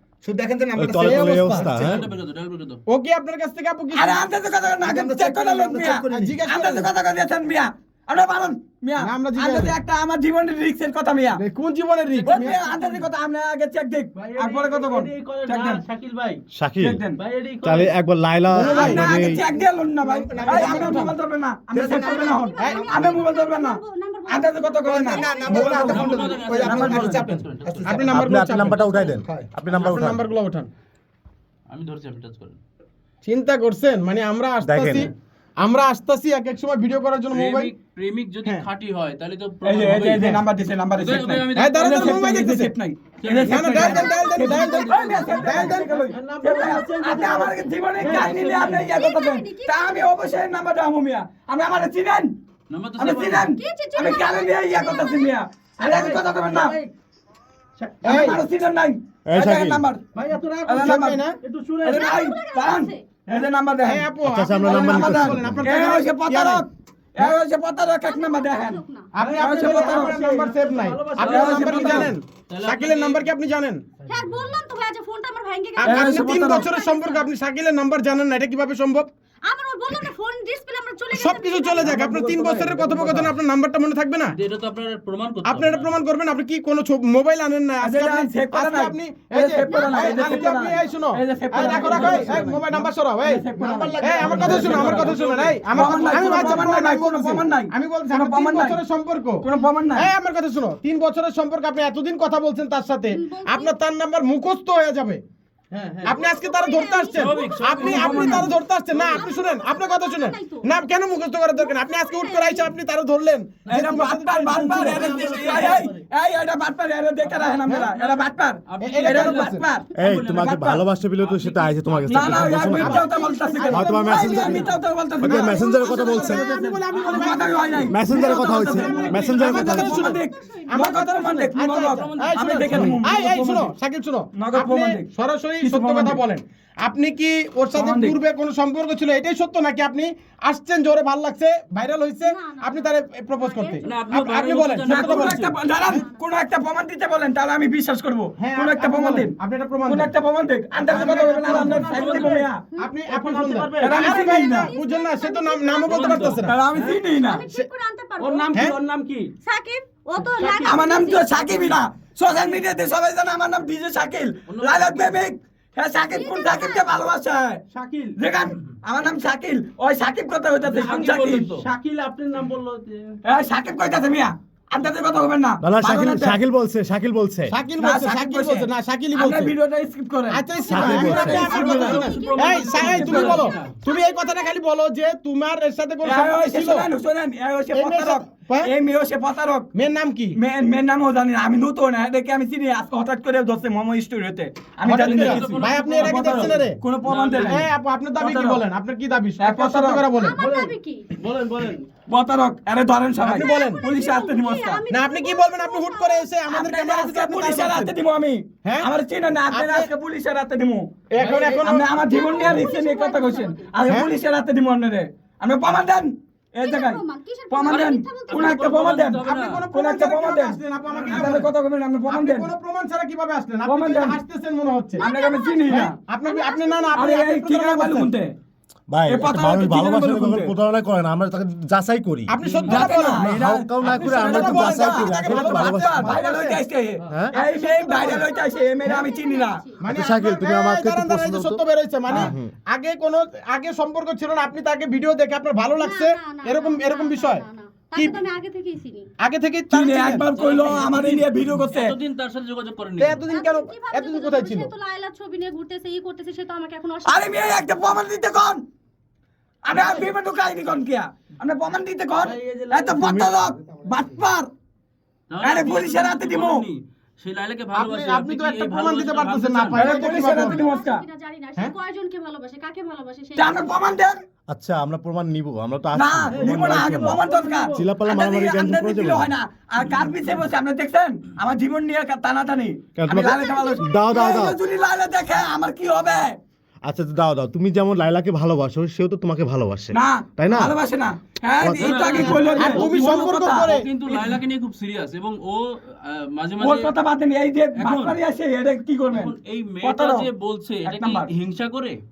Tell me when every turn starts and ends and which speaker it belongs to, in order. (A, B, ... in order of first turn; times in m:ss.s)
0:00.2-0:02.0 A
0:00.8-0:02.0 B
0:01.0-0:01.7 C
0:01.6-0:02.8 D
0:02.9-0:04.3 C
0:03.9-0:11.4 E
0:04.7-0:06.9 A
0:06.1-0:06.9 C
0:09.0-0:09.8 C
0:11.3-0:12.6 C
0:12.2-0:15.8 E
0:12.3-0:13.0 D
0:14.2-0:16.4 D
0:16.5-0:17.0 B
0:16.8-0:17.2 E
0:17.2-0:17.9 D
0:17.6-0:19.4 B
0:18.5-0:19.2 C
0:18.6-0:27.2 E
0:20.0-0:21.0 A
0:20.4-0:21.2 C
0:21.7-0:23.2 A
0:22.0-0:26.2 F
0:22.6-0:22.9 C
0:24.9-0:28.3 A
0:25.4-0:28.0 D
0:27.8-0:28.9 C
0:28.0-0:30.2 B
0:28.8-0:29.6 A
0:29.7-0:30.7 C
0:31.7-0:32.6 D
0:33.2-0:37.7 C
0:34.6-0:35.1 B
0:37.3-0:40.3 D
0:39.6-0:52.3 E
0:41.0-0:42.3 D
0:41.5-0:42.7 C
0:43.2-0:48.9 D
0:43.5-0:46.0 C
0:43.7-0:45.9 F
0:48.7-0:50.0 F
0:52.7-0:53.6 D
0:53.0-0:56.8 E
0:53.6-0:55.3 F
0:55.9-0:56.8 D
0:58.0-1:00.0 E
0:58.0-0:58.4 C
0:59.3-0:59.8 B
1:00.2-1:00.7 D
1:00.6-1:01.2 E
1:00.7-1:01.4 C
1:01.4-1:02.0 D
1:01.8-1:08.8 E
1:01.9-1:03.0 F
1:03.8-1:06.6 C
1:04.2-1:05.6 B
1:08.0-1:09.1 F
1:09.1-1:13.8 C
1:09.2-1:13.2 D
1:09.3-1:10.3 E
1:11.2-1:12.1 E
1:14.1-1:17.3 F
1:15.8-1:19.1 C
1:15.8-1:16.7 E
1:19.4-1:22.0 F
1:21.1-1:24.3 C
1:21.8-1:23.2 E
1:23.1-1:23.3 D
1:24.3-1:25.9 D
1:25.4-1:45.2 C
1:27.8-1:35.1 E
1:29.6-1:30.6 F
1:33.6-1:35.2 A
1:34.4-1:36.4 D
1:35.7-1:38.8 E
1:39.4-1:40.1 E
1:43.1-1:43.7 F
1:45.7-1:46.0 D
1:46.0-1:55.8 C
1:46.0-1:48.6 F
1:47.1-1:49.2 D
1:48.0-1:48.4 E
1:49.1-1:50.7 F
1:51.5-1:52.7 F
1:53.6-2:00.8 E
1:54.7-1:56.0 D
1:57.3-1:59.5 D
1:57.6-1:57.9 C
1:58.8-1:59.6 C
2:00.0-2:03.0 B
2:00.0-2:00.3 D
2:01.2-2:02.8 D
2:02.1-2:05.6 E
2:02.6-2:26.0 C
2:02.8-2:04.8 F
2:03.7-2:04.6 B
2:05.2-2:06.4 B
2:05.4-2:11.4 F
2:06.5-2:13.7 E
2:07.9-2:09.9 B
2:11.9-2:13.0 D
2:14.3-2:15.1 E
2:15.6-2:16.2 E
2:17.7-2:18.2 E
2:22.2-2:23.9 F
2:23.8-2:25.6 D
2:24.8-2:29.3 E
2:25.7-2:26.2 F
2:28.4-2:30.1 C
2:29.9-2:32.6 E
2:30.8-2:32.2 C
2:31.1-2:32.5 D
2:32.8-2:33.0 F
2:32.8-2:36.6 C
2:33.1-2:34.0 D
2:33.8-2:34.7 E
2:33.9-2:36.4 F
2:35.9-2:36.9 D
2:36.4-2:37.4 E
2:37.1-2:38.6 F
2:38.2-2:39.3 D
2:39.4-2:41.6 F
2:40.4-2:47.6 E
2:44.5-2:45.2 D
2:46.1-2:46.9 F
2:47.7-2:48.1 D
2:48.2-2:51.6 E
2:50.6-2:53.1 D
2:53.2-2:56.4 E
2:55.6-2:57.5 B
2:57.5-2:59.6 C
2:57.8-3:00.4 E
3:00.3-3:06.9 C
3:00.6-3:04.6 F
3:00.7-3:01.5 B
3:01.3-3:02.1 E
3:01.6-3:03.7 D
3:02.8-3:03.5 E
3:06.0-3:09.7 E
3:07.7-3:08.7 C
3:09.8-3:10.4 C
3:10.3-3:17.7 E
3:14.8-3:16.8 C
3:15.0-3:17.6 D
3:17.4-3:20.4 C
3:18.2-3:18.6 E
3:19.4-3:20.0 E
3:20.1-3:21.1 F
3:20.4-3:21.9 D
3:22.1-3:24.8 E
3:23.2-3:23.8 C
3:23.4-3:26.3 F
3:24.9-3:27.9 C
3:26.5-3:30.9 E
3:28.6-3:28.9 C
3:29.5-3:29.9 C
3:31.1-3:31.8 C
3:31.2-3:31.8 D
3:31.5-3:42.5 E
3:31.9-3:33.8 F
3:33.8-3:34.1 C
3:36.6-3:38.7 F
3:37.7-3:39.6 D
3:39.2-3:41.5 C
3:42.0-3:45.1 C
3:43.6-3:44.2 E
3:45.0-3:47.1 F
3:45.0-3:46.0 E
3:45.7-3:48.1 C
3:46.9-3:48.3 E
3:48.9-3:56.2 B
3:49.1-3:50.5 E
3:52.3-3:56.6 C
3:52.7-3:59.6 E
3:57.1-3:57.4 B
3:57.3-3:59.8 F
3:59.8-4:08.2 C
3:59.8-4:02.5 B
4:05.8-4:09.1 F
4:09.2-4:10.3 C
4:09.7-4:11.9 E
4:10.3-4:13.2 D
4:13.0-4:14.7 C
4:13.3-4:17.5 F
4:17.1-4:18.6 E
4:19.6-4:24.5 E
4:19.7-4:20.1 D
4:22.2-4:23.2 D
4:23.4-4:24.2 A
4:25.3-4:29.9 D
4:25.4-4:26.7 E
4:27.7-4:30.6 C
4:29.7-4:31.0 E
4:30.0-4:33.8 F
4:33.4-4:34.2 E
4:34.5-4:39.3 B
4:35.9-4:46.4 E
4:36.3-4:37.8 D
4:43.0-4:44.6 B
4:43.4-4:43.8 F
4:46.8-4:50.7 B
4:49.9-4:54.4 E
4:51.6-4:52.1 B
4:51.8-4:56.9 D
4:52.5-4:53.9 C
4:56.6-5:00.3 E
4:57.8-4:58.2 D
4:59.1-5:02.0 D
5:00.8-5:01.3 E